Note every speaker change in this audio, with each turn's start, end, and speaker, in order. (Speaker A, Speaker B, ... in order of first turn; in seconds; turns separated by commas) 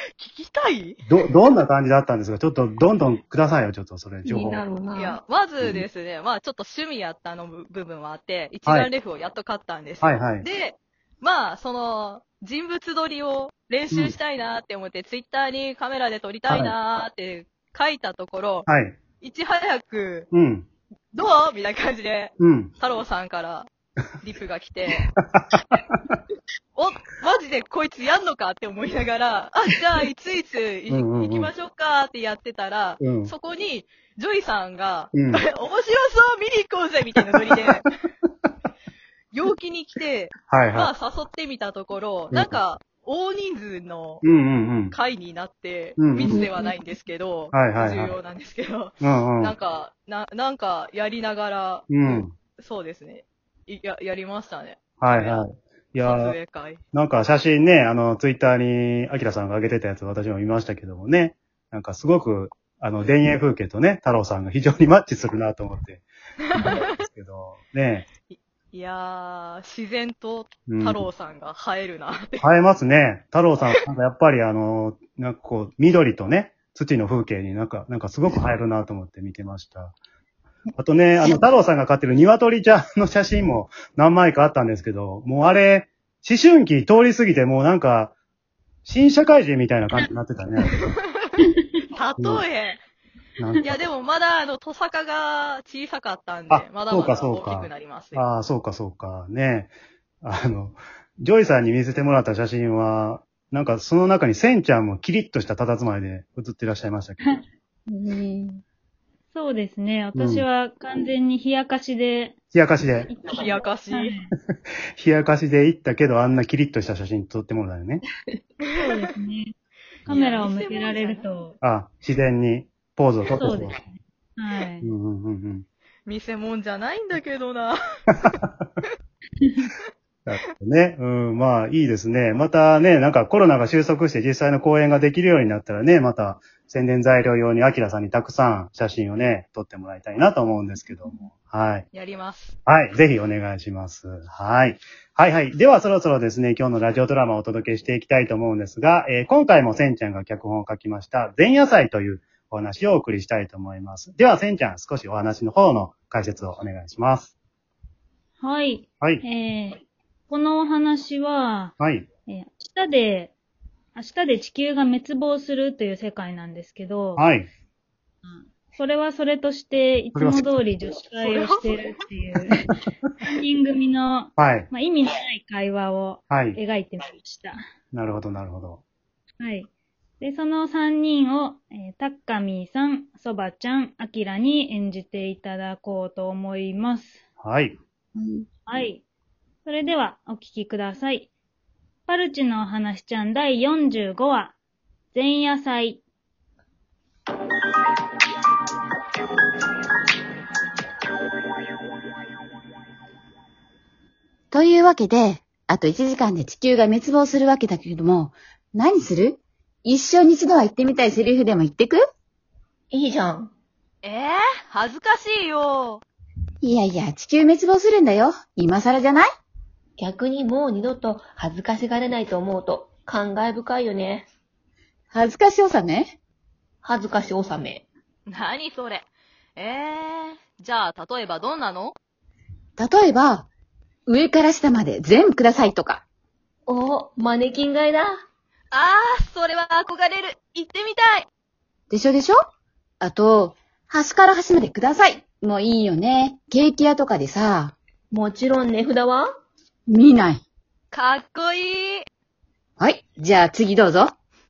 Speaker A: 0.2-1.0, Speaker B: 1.1-4.6, Speaker C: 4.2-5.2, Speaker A: 4.9-18.6, Speaker B: 10.0-10.4, Speaker B: 16.5-16.7, Speaker B: 18.7-19.0, Speaker A: 19.2-20.3, Speaker B: 20.3-20.7, Speaker A: 21.1-23.7, Speaker B: 22.4-22.7, Speaker A: 24.2-25.0, Speaker B: 25.0-26.0, Speaker A: 26.7-37.8, Speaker B: 30.9-31.5, Speaker B: 33.0-33.3, Speaker B: 35.1-35.4, Speaker A: 39.3-44.2, Speaker B: 40.5-40.9, Speaker B: 42.3-42.6, Speaker B: 44.2-44.9, Speaker A: 44.9-55.4, Speaker B: 46.0-46.4, Speaker B: 47.5-48.1, Speaker B: 49.0-49.5, Speaker B: 51.9-52.3, Speaker B: 55.0-56.4, Speaker A: 56.0-56.8, Speaker B: 56.9-66.1, Speaker A: 66.5-66.9, Speaker B: 66.6-68.1, Speaker A: 68.3-72.4, Speaker B: 70.7-71.0, Speaker B: 72.4-79.9, Speaker B: 80.8-88.1, Speaker B: 88.8-90.7, Speaker A: 90.7-91.3, Speaker D: 91.4-91.8, Speaker A: 91.9-92.8, Speaker B: 93.4-93.7, Speaker A: 93.6-98.2, Speaker B: 96.5-107.2, Speaker E: 107.9-108.6, Speaker D: 109.3-112.4, Speaker B: 110.1-110.4, Speaker B: 112.5-113.1, Speaker D: 113.0-114.3, Speaker A: 113.3-114.1, Speaker B: 115.0-118.0, Speaker D: 118.8-119.5, Speaker D: 120.0-121.6, Speaker A: 120.1-121.2, Speaker B: 121.6-123.8, Speaker D: 123.3-124.9, Speaker B: 124.8-125.6, Speaker A: 126.0-128.9, Speaker B: 130.2-141.8, Speaker A: 141.9-142.5, Speaker B: 142.7-157.3, Speaker D: 158.4-161.7, Speaker B: 161.8-162.1, Speaker D: 162.3-163.3, Speaker D: 163.9-167.3, Speaker B: 167.2-167.5, Speaker D: 168.2-177.6, Speaker B: 170.1-170.5, Speaker A: 171.2-171.8, Speaker B: 174.4-174.7, Speaker B: 176.3-176.6, Speaker B: 177.9-178.8, Speaker D: 179.4-179.7, Speaker D: 180.2-187.2, Speaker B: 187.4-187.8, Speaker E: 188.2-188.4, Speaker D: 188.7-189.0, Speaker D: 189.6-191.3, Speaker D: 192.1-194.6, Speaker D: 195.1-196.0, Speaker E: 204.5-212.0, Speaker C: 212.9-213.5, Speaker A: 214.0-216.0, Speaker E: 216.6-219.3, Speaker C: 220.0-224.3, Speaker E: 225.1-226.1, Speaker C: 226.8-227.8, Speaker A: 228.3-231.9, Speaker E: 232.8-233.5, Speaker E: 234.1-236.0, Speaker C: 236.7-238.1, Speaker A: 238.7-241.3, Speaker E: 241.9-242.4, Speaker E: 243.0-247.7, Speaker C: 248.1-249.3, Speaker E: 249.9-250.4, Speaker A: 250.9-252.1, Speaker E: 252.8-254.1